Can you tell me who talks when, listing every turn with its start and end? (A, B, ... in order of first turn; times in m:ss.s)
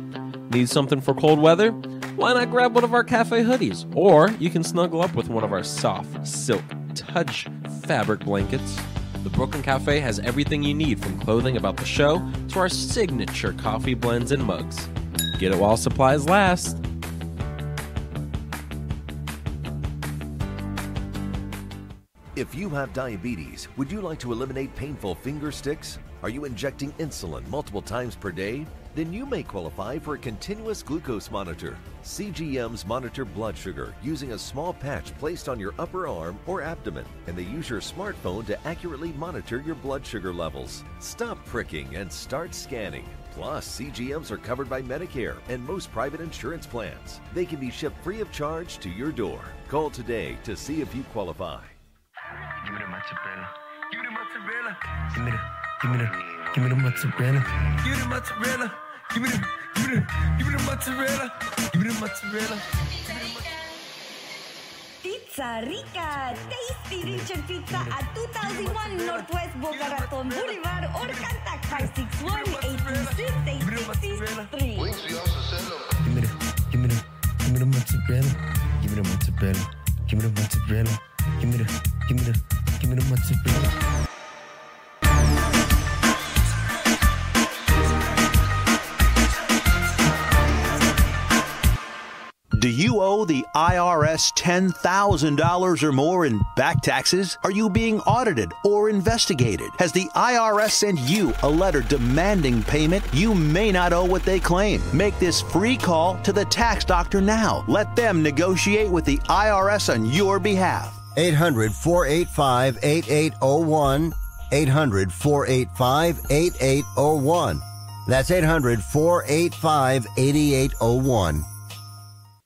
0:00.5-0:16.8 A
0:22.4-0:51.8 B
0:52.6-1:03.5 C
1:05.0-1:15.0 D
1:05.7-1:15.3 C
1:16.0-1:23.7 C
1:32.5-1:51.0 E
1:51.1-2:01.4 F